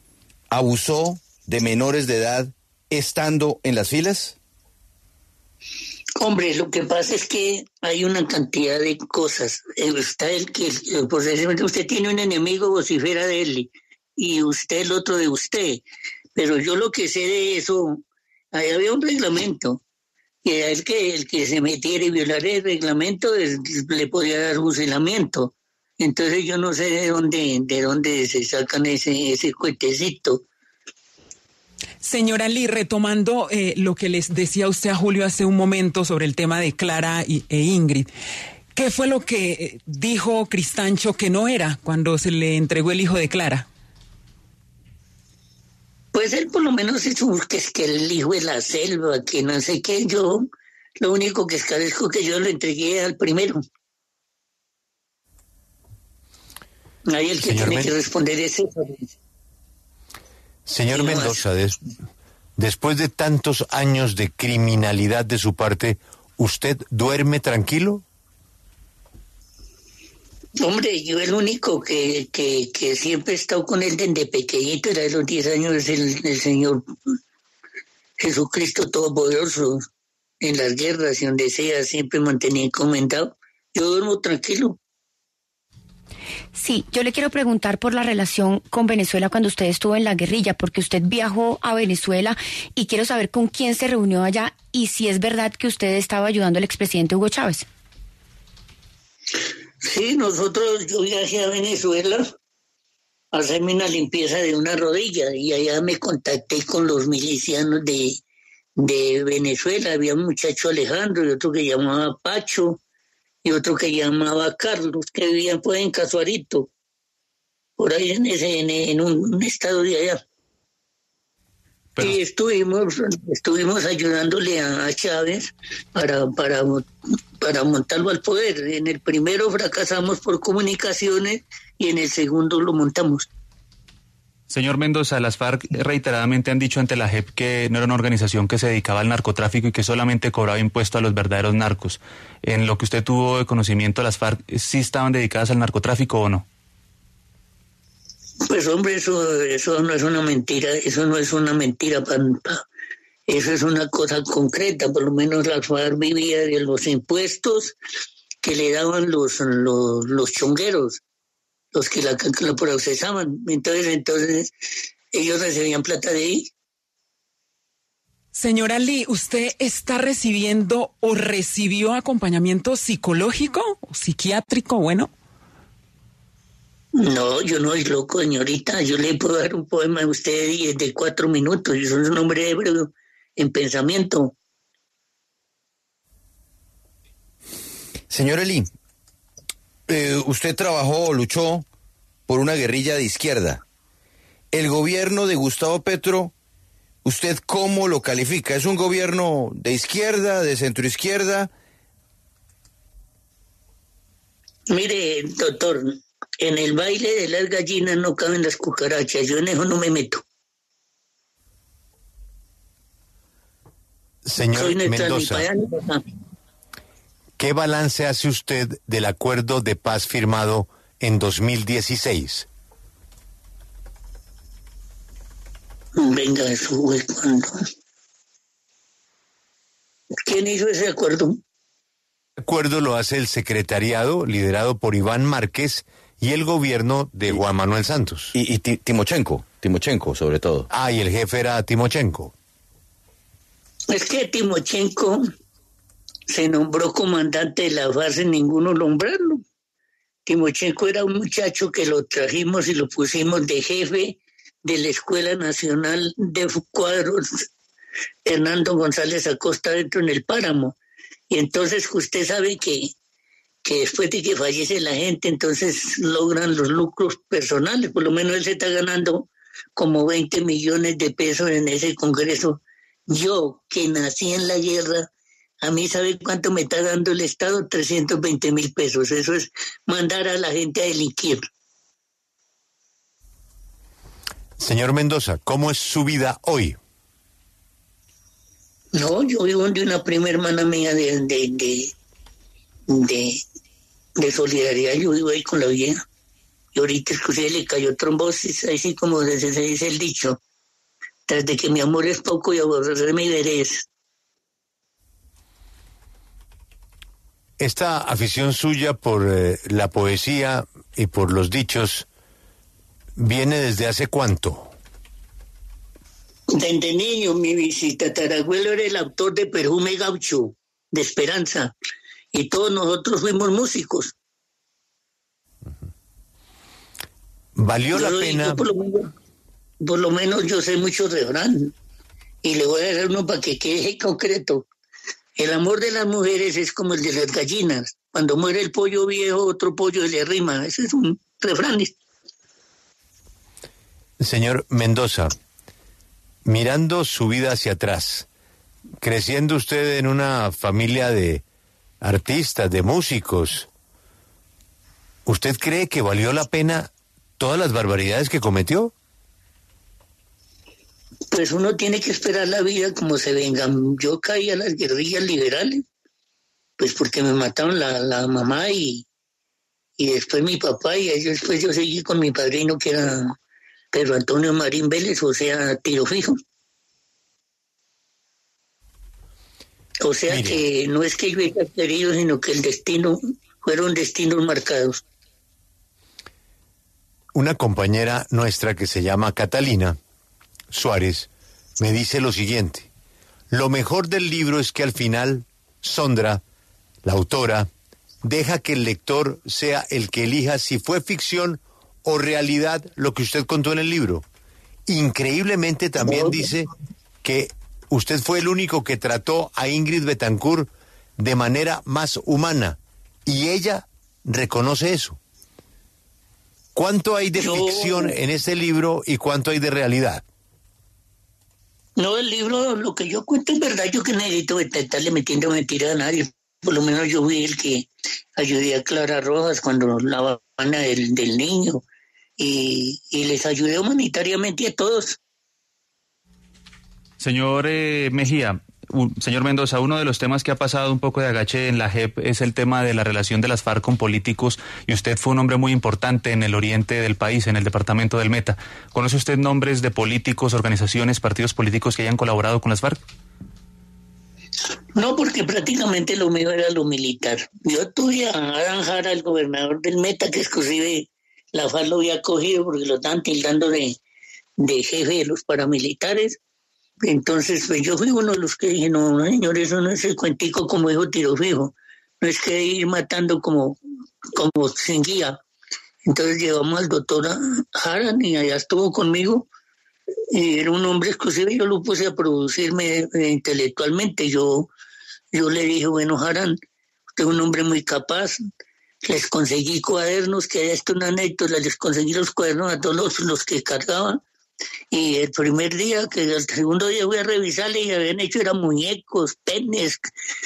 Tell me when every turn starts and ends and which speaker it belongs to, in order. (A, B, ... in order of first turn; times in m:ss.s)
0:00.5-0:04.4 A
0:06.2-0:15.8 B
0:16.4-0:18.0 B
0:18.5-0:19.8 B
0:20.4-0:30.4 B
0:32.0-0:38.1 C
0:38.8-0:43.7 C
0:46.1-0:50.4 B
0:51.0-0:53.6 B
0:57.1-0:59.1 B
0:57.4-0:57.9 D
1:00.7-1:01.8 D
1:00.9-1:01.4 B
1:02.6-1:08.0 D
1:10.6-1:16.9 B
1:18.2-1:19.8 B
1:20.4-1:24.8 B
1:26.6-1:37.7 E
1:39.8-1:42.3 B
1:43.3-1:48.2 B
1:48.8-1:52.8 B
1:53.4-1:56.7 B
1:57.8-2:00.2 B
2:02.0-2:06.9 B
2:07.4-2:13.3 B
2:14.5-2:26.5 F
2:28.5-2:32.6 B
2:33.3-2:37.8 B
2:38.4-2:41.0 B
2:41.7-2:44.5 B
2:45.1-2:46.5 B
2:48.3-2:55.1 C
2:56.9-3:04.4 B
3:08.1-3:08.7 A
3:09.9-3:11.7 A
3:12.3-3:13.6 A
3:14.5-3:16.3 A
3:17.0-3:21.5 A
3:24.7-3:30.2 B
3:34.3-3:35.5 D
3:34.5-3:36.0 B
3:37.4-3:42.5 D
3:46.0-3:47.7 B
3:50.2-3:51.4 B
3:52.4-3:58.4 D
3:58.3-4:00.7 A
4:00.7-4:02.3 D
4:03.9-4:05.2 B
4:06.3-4:09.4 B
4:10.3-4:17.5 B
4:18.3-4:20.8 B
4:21.3-4:22.9 B
4:23.6-4:35.1 B
4:35.6-4:41.4 B
4:44.6-4:46.8 D
4:48.9-4:51.9 B
4:52.9-4:53.4 B
4:54.2-4:56.0 B
4:56.7-5:00.4 B
5:01.3-5:03.9 B
5:07.6-5:12.1 D
5:13.2-5:14.7 D
5:16.5-5:21.7 B
5:22.3-5:24.1 B
5:27.6-5:28.6 D
5:27.9-5:29.1 B
5:29.8-5:31.7 B
5:32.4-5:34.7 B
5:35.4-5:42.0 B
5:44.2-5:45.4 D
5:46.4-5:48.3 D
5:49.0-5:51.4 D
5:52.0-5:53.7 D
5:55.3-5:58.9 D
6:01.3-6:05.8 B
6:06.8-6:09.0 B
6:10.0-6:13.4 B
6:13.9-6:16.4 B
6:20.0-6:25.0 B
6:20.3-6:20.6 D
6:27.3-6:30.0 D
6:30.7-6:32.9 D
6:33.5-6:36.4 D
6:37.0-6:37.7 D
6:38.2-6:44.2 D
6:44.9-6:46.7 D
6:46.0-6:46.4 B
6:47.2-6:55.2 D
6:56.8-7:00.2 D
6:57.4-6:58.2 B
7:02.0-7:11.8 B
7:12.4-7:15.2 B
7:17.2-7:33.0 F
7:35.0-7:44.0 B
7:44.6-7:46.4 B
7:47.0-7:53.8 B
7:54.3-7:55.4 B
7:56.1-7:59.5 B
8:00.3-8:04.7 B
8:05.3-8:06.6 B
8:07.2-8:08.4 B
8:09.0-8:14.2 B
8:14.9-8:20.1 B